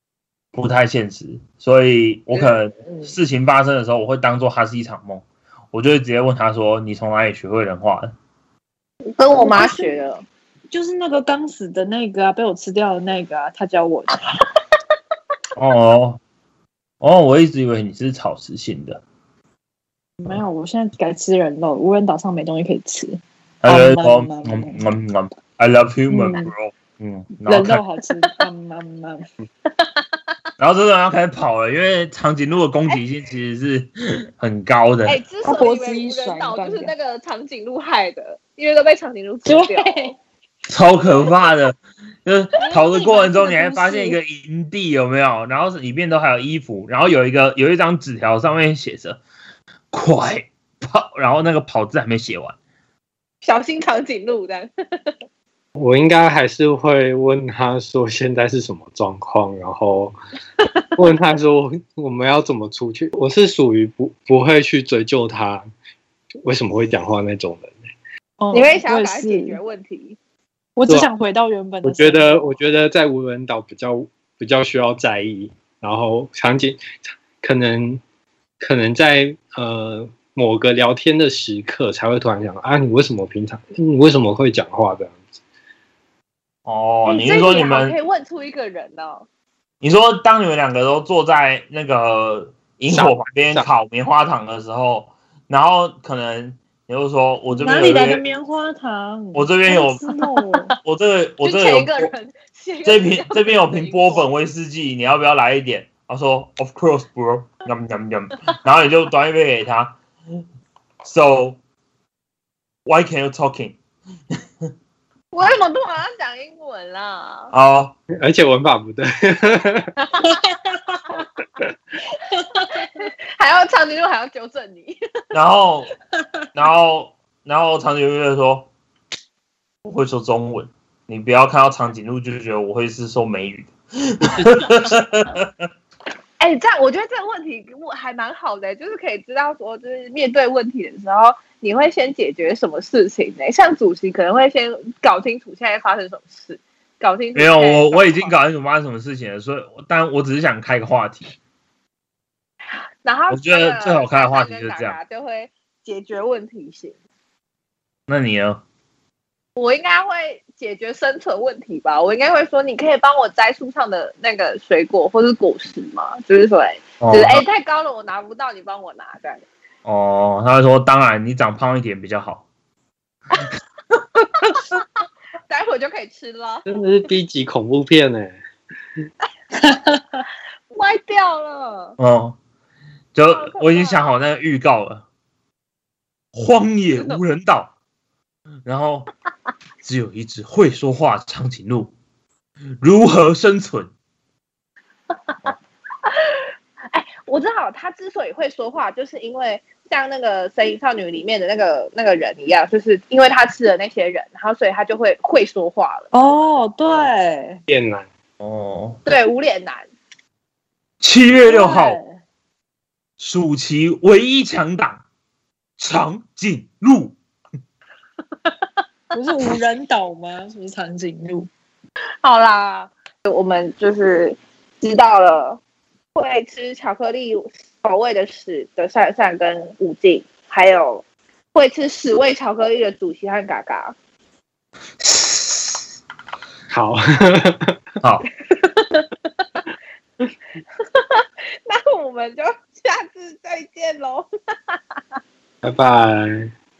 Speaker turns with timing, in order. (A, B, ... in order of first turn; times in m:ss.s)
0:00.5-0:08.1 A
0:02.3-0:03.1 B
0:09.2-0:10.2 B
0:09.4-0:09.9 C
0:10.7-0:14.1 C
0:15.6-0:16.2 A
0:17.0-0:19.0 A
0:20.2-0:24.8 C
0:23.6-0:27.8 A
0:26.1-0:26.5 C
0:27.4-0:29.2 C
0:28.2-0:28.5 B
0:29.7-0:30.0 B
0:30.6-0:35.2 A
0:35.0-0:40.1 B
0:35.4-0:36.9 C
0:39.4-0:40.2 C
0:40.7-0:49.2 A
0:42.6-0:44.2 B
0:49.9-0:52.6 A
0:53.4-0:55.1 B
0:55.8-1:00.1 D
1:01.0-1:05.6 D
1:06.4-1:07.8 D
1:08.4-1:09.6 C
1:08.5-1:10.2 B
1:10.8-1:12.6 C
1:11.8-1:18.0 D
1:18.6-1:25.2 D
1:26.6-1:28.0 A
1:27.0-1:29.3 B
1:29.8-1:38.2 A
1:32.9-1:33.7 D
1:37.6-1:40.7 C
1:39.3-1:40.0 A
1:40.8-1:42.1 A
1:41.4-1:44.2 B
1:42.8-1:50.0 A
1:51.0-1:51.6 A
1:52.8-1:53.8 A
1:55.3-1:57.5 B
1:57.5-1:57.9 A
1:58.2-1:59.9 D
2:00.0-2:00.4 B
2:00.2-2:01.2 C
2:02.2-2:03.0 C
2:02.6-2:05.0 B
2:05.3-2:05.9 A
2:06.5-2:08.7 A
2:09.8-2:15.5 A
2:14.2-2:14.8 D
2:16.4-2:28.3 B
2:27.3-2:31.3 A
2:33.0-2:36.9 B
2:33.3-2:35.0 A
2:38.1-2:38.6 A
2:39.6-2:49.4 B
2:47.0-2:47.4 A
2:49.8-2:52.4 A
2:54.2-2:54.8 B
2:55.5-2:56.6 B
2:56.6-2:58.3 D
2:59.6-3:00.2 C
3:00.7-3:02.0 B
3:02.0-3:02.4 A
3:03.1-3:05.0 A
3:03.3-3:04.1 B
3:06.3-3:07.7 A
3:08.6-3:09.1 A
3:09.8-3:11.9 A
3:12.8-3:13.9 A
3:16.1-3:26.1 B
3:26.1-3:27.6 C
3:27.7-3:28.1 D
3:28.4-3:29.0 A
3:29.0-3:29.9 B
3:31.0-3:32.0 A
3:31.4-3:32.2 C
3:33.2-3:35.0 A
3:35.8-3:37.2 A
3:39.1-3:41.5 C
3:42.2-3:45.6 B
3:46.1-3:53.9 B
3:56.7-3:57.8 D
3:58.0-3:58.2 A
3:58.5-3:59.1 B
4:00.8-4:04.8 B
4:05.6-4:06.5 D